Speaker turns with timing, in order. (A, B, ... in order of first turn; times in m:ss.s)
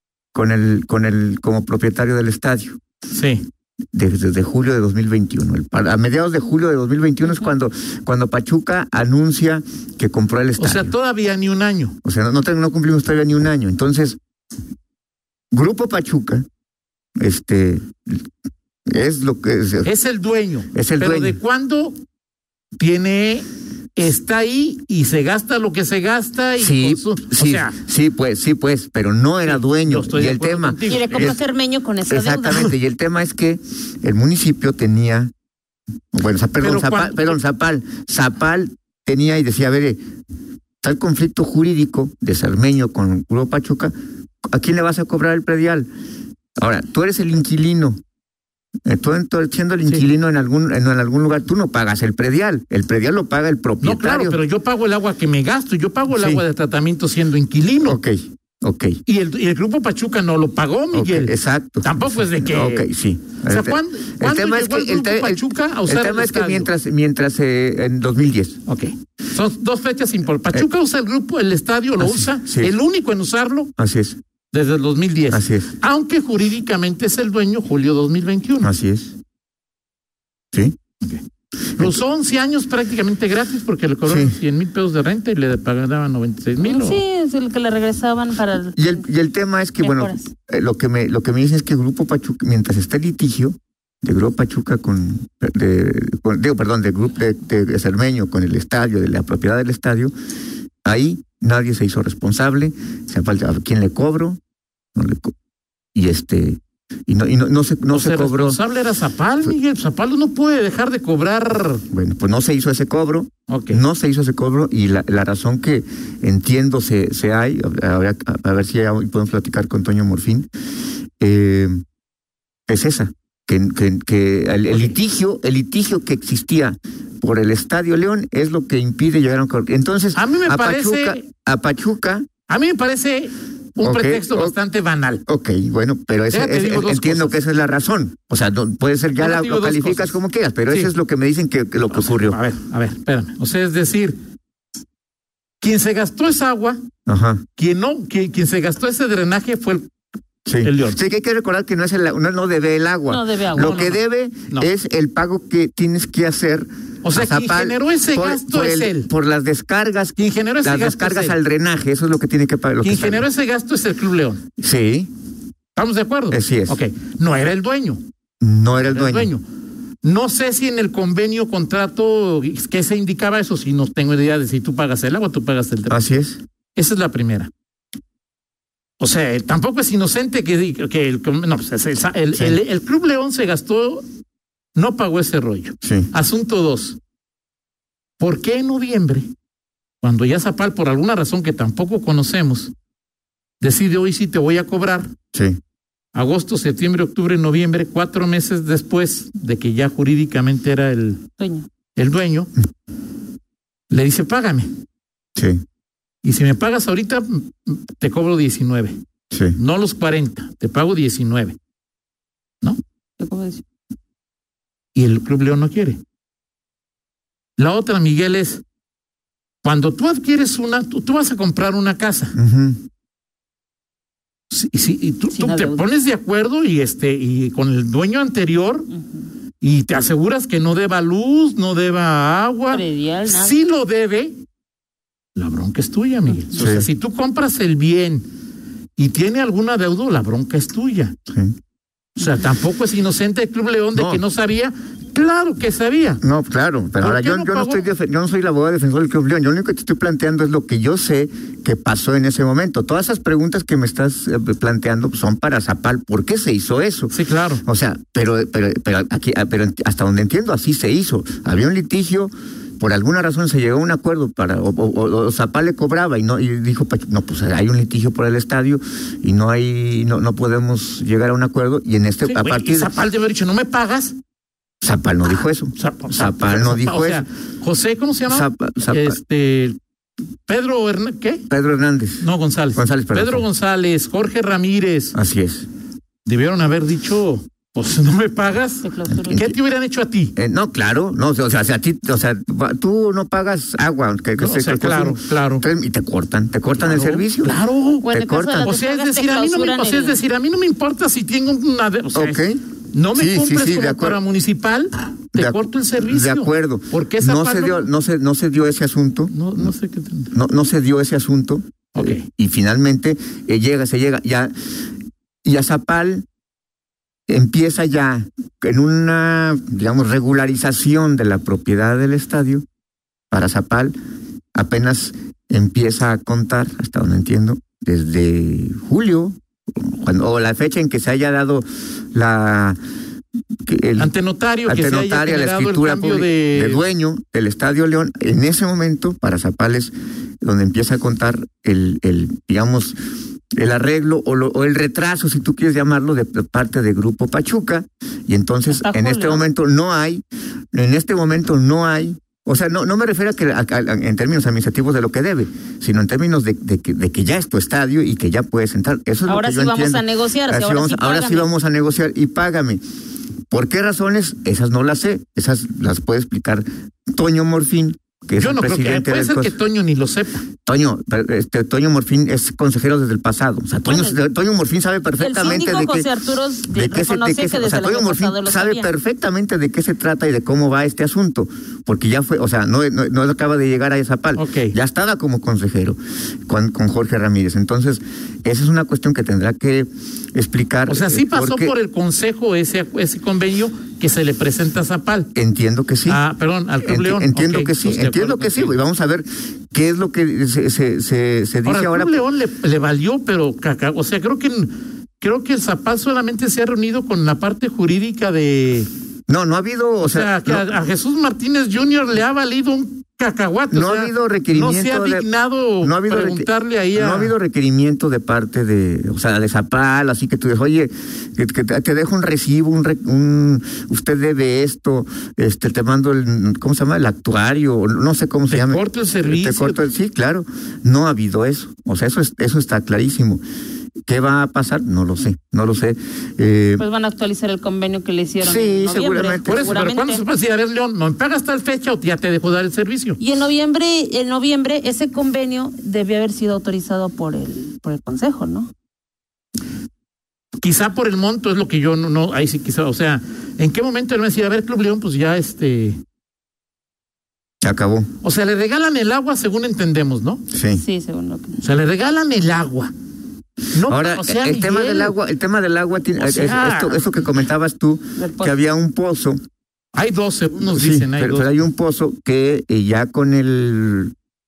0:00.3-0:02.8 A
0:03.1-0:03.4 B
0:03.9-0:10.9 A
0:10.6-0:12.0 B
0:12.0-0:14.2 A
0:15.5-0:16.5 A
0:17.2-0:18.2 A
0:18.9-0:19.9 A
0:19.8-0:22.0 B
0:20.7-0:21.4 A
0:22.8-0:27.8 B
0:26.6-0:31.4 A
0:29.4-0:31.4 B
0:30.9-0:32.7 C
0:32.1-0:35.3 A
0:36.1-0:40.0 A
0:36.6-0:37.4 B
0:40.8-0:43.9 A
0:44.5-0:45.9 A
0:46.6-0:48.0 A
0:48.9-0:54.4 A
0:53.8-0:58.0 B
0:56.1-0:56.4 A
0:57.8-0:59.0 A
0:59.1-1:02.9 B
1:00.9-1:08.6 A
1:03.5-1:06.7 B
1:08.7-1:13.7 B
1:12.0-1:12.7 A
1:13.8-1:14.2 A
1:14.5-1:18.7 B
1:15.3-1:15.7 A
1:18.6-1:19.2 A
1:21.8-1:27.0 B
1:24.1-1:24.4 A
1:26.6-1:29.0 C
1:28.8-1:40.1 A
1:29.8-1:30.3 C
1:40.8-1:44.4 A
1:45.0-1:45.3 A
1:46.0-1:48.6 A
1:47.9-1:51.8 B
1:51.9-2:00.5 A
1:53.5-1:53.8 B
2:01.2-2:01.8 A
2:02.7-2:12.3 A
2:10.2-2:11.2 B
2:12.5-2:15.2 B
2:13.8-2:14.6 A
2:15.3-2:22.4 A
2:16.3-2:17.4 B
2:19.2-2:20.2 B
2:21.9-2:24.2 B
2:25.6-2:26.8 B
2:27.1-2:27.4 A
2:27.6-2:29.9 B
2:30.4-2:43.2 A
2:30.6-2:31.0 B
2:33.1-2:33.8 C
2:33.6-2:34.7 B
2:37.0-2:39.1 B
2:40.2-2:41.4 B
2:42.8-2:44.4 B
2:44.6-2:45.1 A
2:45.8-2:48.0 B
2:46.3-2:46.8 A
2:48.4-2:49.3 A
2:48.8-2:49.4 B
2:50.0-2:56.0 B
2:55.9-2:56.4 A
2:56.8-2:57.5 B
2:59.0-3:04.0 B
3:02.3-3:02.6 A
3:04.8-3:07.0 B
3:05.8-3:06.1 A
3:08.2-3:09.3 B
3:10.0-3:12.7 B
3:13.6-3:15.1 B
3:15.3-3:15.6 A
3:16.1-3:21.2 B
3:21.4-3:21.7 C
3:22.0-3:22.5 B
3:23.9-3:24.7 B
3:25.4-3:25.6 A
3:26.2-3:29.0 B
3:29.3-3:29.6 A
3:29.6-3:31.6 B
3:33.2-3:33.6 C
3:34.9-3:36.0 B
3:37.6-3:38.6 B
3:39.6-3:42.4 B
3:42.4-3:42.8 A
3:44.5-3:48.9 B
3:45.3-3:45.8 C
3:49.6-3:54.4 B
3:52.7-3:53.6 C
3:55.4-3:58.2 B
3:56.5-3:56.9 A
3:59.0-4:01.1 B
4:01.3-4:01.6 A
4:02.2-4:06.2 B
4:04.0-4:04.2 A
4:06.2-4:17.1 A
4:07.0-4:07.8 B
4:17.1-4:17.6 B
4:17.6-4:32.9 A
4:32.2-4:34.2 B
4:34.8-4:37.2 A
4:35.8-4:39.8 B
4:38.3-4:39.2 A
4:40.5-4:41.4 B
4:41.5-4:43.4 A
4:42.2-4:45.2 B
4:45.2-4:45.7 A
4:46.2-4:50.3 B
4:48.8-4:49.4 C
4:49.1-4:49.6 A
4:50.4-4:57.6 A
4:54.4-4:55.7 B
4:56.8-4:58.1 B
4:58.0-5:00.2 C
4:58.1-4:58.7 A
4:58.6-5:07.9 B
5:02.2-5:02.6 A
5:03.2-5:04.2 A
5:05.4-5:09.7 A
5:09.3-5:10.3 B
5:10.3-5:14.5 A
5:11.9-5:12.2 B
5:15.4-5:16.2 A
5:17.3-5:22.6 A
5:23.3-5:24.0 A
5:24.5-5:32.8 A
5:33.7-5:34.1 A
5:34.0-5:36.8 B
5:34.6-5:43.0 A
5:43.5-6:02.8 A
5:48.7-5:49.4 C
5:59.2-6:01.5 C
6:03.5-6:09.6 A
6:08.4-6:10.4 B
6:10.7-6:16.1 A
6:13.8-6:14.2 C
6:15.2-6:18.9 C
6:16.7-6:31.7 A
6:24.3-6:24.8 B
6:30.9-6:35.3 B
6:35.3-6:36.2 A
6:36.1-6:38.8 B
6:36.8-6:42.2 A
6:41.6-6:48.9 B
6:49.3-6:50.7 A
6:50.0-6:57.3 B
6:53.7-6:55.3 A
6:55.8-7:13.4 A
7:08.5-7:09.8 B
7:14.1-7:16.8 A
7:16.8-7:20.2 C
7:18.4-7:19.8 A
7:19.4-7:23.2 B
7:23.2-7:28.7 C
7:30.6-7:36.0 B
7:37.6-7:38.1 A
7:38.2-7:40.4 B
7:40.5-7:40.8 A
7:40.7-7:41.6 C
7:41.6-7:42.9 B
7:43.7-7:45.2 B
7:43.8-7:49.4 A
7:46.2-7:47.2 B
7:48.2-7:48.6 C
7:49.9-7:51.6 B
7:50.7-7:54.1 A